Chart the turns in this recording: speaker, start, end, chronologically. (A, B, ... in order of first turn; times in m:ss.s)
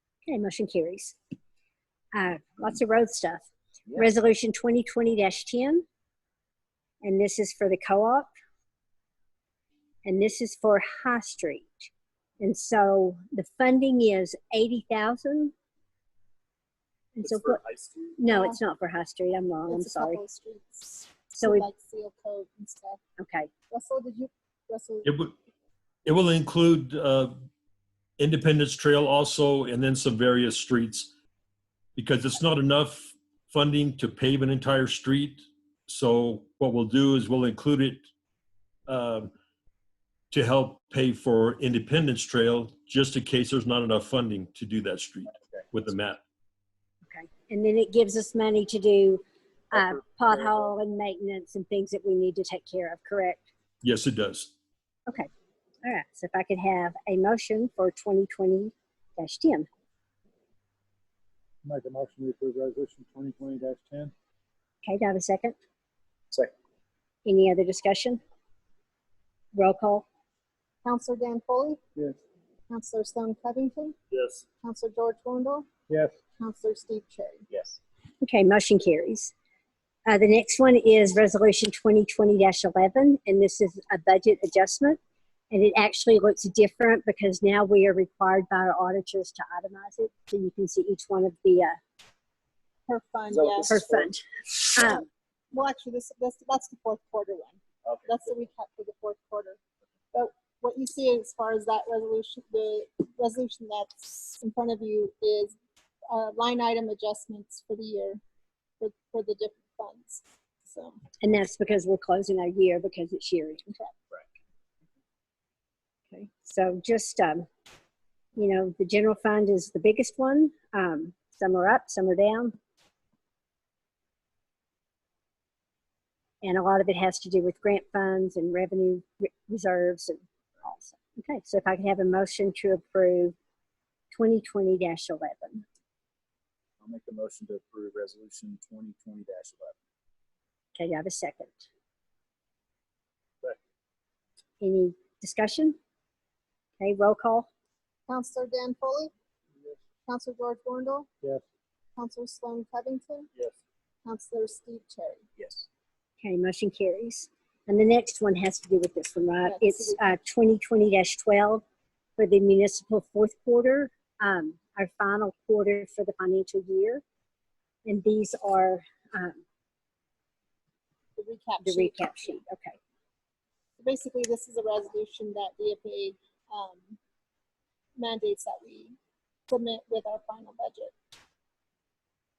0:00.3-0:01.2 A
0:02.1-0:05.8 A
0:07.0-0:08.3 A
0:10.0-0:11.9 A
0:12.4-0:15.5 A
0:17.2-0:17.6 A
0:17.2-0:18.2 B
0:18.2-0:20.2 A
0:18.3-0:18.6 C
0:19.7-0:23.0 C
0:21.4-0:21.7 A
0:23.2-0:23.5 A
0:23.7-0:25.2 C
0:25.0-0:25.3 D
0:26.0-0:27.4 D
0:28.2-0:31.1 D
0:32.0-0:38.0 D
0:38.9-0:39.3 D
0:40.3-0:46.2 D
0:47.1-0:53.5 A
0:50.3-0:50.6 D
0:53.8-0:54.5 D
0:55.8-0:59.7 A
1:01.6-1:04.1 E
1:04.8-1:05.6 A
1:07.2-1:08.2 A
1:09.5-1:10.0 A
1:10.8-1:11.8 C
1:12.7-1:14.0 C
1:14.1-1:14.4 D
1:14.6-1:15.7 C
1:15.9-1:16.2 E
1:16.4-1:17.4 C
1:18.2-1:19.3 A
1:20.1-1:25.0 A
1:25.5-1:31.8 A
1:32.9-1:33.8 C
1:33.3-1:34.1 B
1:33.6-1:35.1 A
1:35.5-1:39.6 C
1:37.8-1:38.3 B
1:40.1-1:45.6 C
1:46.1-1:48.2 C
1:48.8-1:51.0 C
1:51.2-1:53.8 A
1:56.1-1:57.5 A
1:58.4-2:02.6 A
2:06.4-2:13.3 A
2:14.1-2:15.6 A
2:16.8-2:19.8 B
2:20.8-2:21.7 A
2:24.6-2:25.8 A
2:26.8-2:27.5 A
2:28.1-2:29.1 C
2:30.0-2:31.1 C
2:32.0-2:33.3 C
2:34.0-2:35.2 C
2:35.4-2:35.6 B
2:36.2-2:41.6 A
2:39.4-2:40.0 C
2:42.2-2:47.0 A
2:47.8-2:49.4 A
2:51.2-2:52.3 C
2:51.6-2:52.8 A
2:53.8-2:57.0 C
2:58.0-2:59.0 C
2:59.5-3:00.9 C